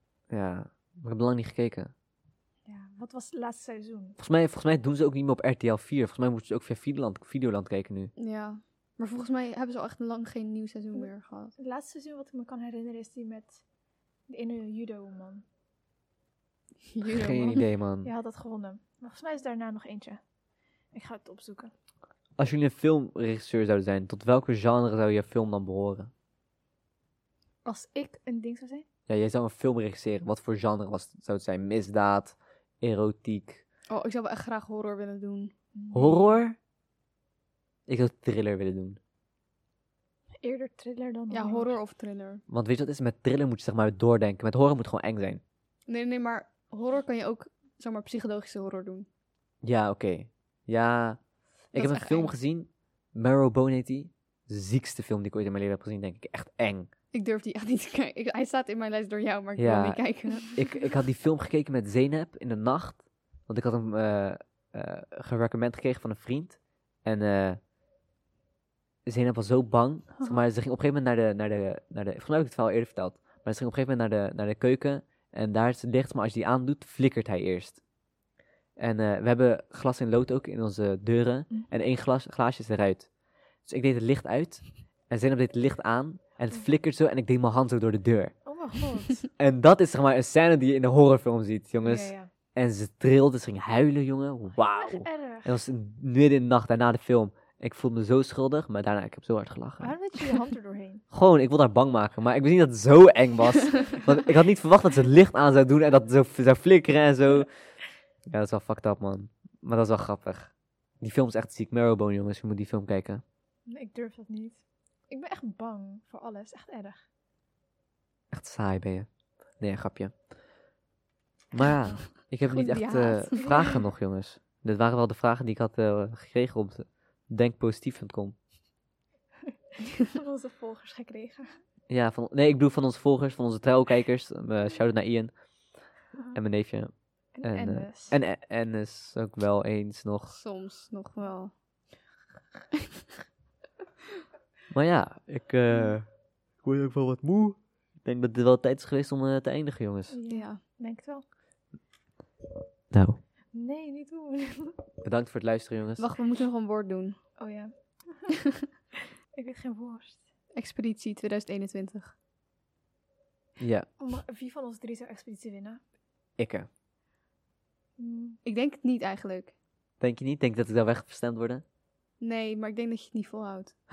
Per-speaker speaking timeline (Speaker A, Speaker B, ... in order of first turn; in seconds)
Speaker A: 0.3-1.9, 4.2-8.1, 17.0-18.1, 22.4-26.1, 29.1-33.6, 35.9-36.6, 37.9-39.0, 42.5-45.4, 49.6-56.9, 59.6-67.6, 69.1-77.8, 78.8-83.1, 83.6-88.3, 89.4-100.0, 101.1-107.5, 108.3-113.2, 118.3-119.1, 119.6-120.2, 121.5-128.4, 131.9-135.5, 136.3-140.3, 144.7-150.2, 152.9-153.2, 155.0-156.1, 163.6-163.9, 166.4-166.7, 170.0-171.6
Speaker B: 2.7-4.2, 10.9-13.6, 14.3-15.4, 17.4-20.2, 20.9-21.7, 27.6-28.9, 35.8-36.4, 40.4-41.8, 70.2-70.4, 88.5-89.3, 91.8-92.3, 94.6-95.6, 99.8-101.0, 113.7-117.0, 123.3-123.6, 130.0-131.6, 137.3-138.2, 150.1-151.2, 153.5-154.8, 157.4-158.4, 159.3-160.3, 164.0-165.8, 168.0-168.4
Speaker C: 8.2-11.5, 16.9-17.6, 33.9-35.5, 41.3-42.4, 45.9-49.1, 51.7-52.3, 57.1-60.7, 122.5-123.5, 140.3-141.6, 150.3-150.6, 156.0-157.2, 160.6-162.1, 168.4-169.6, 172.2-173.8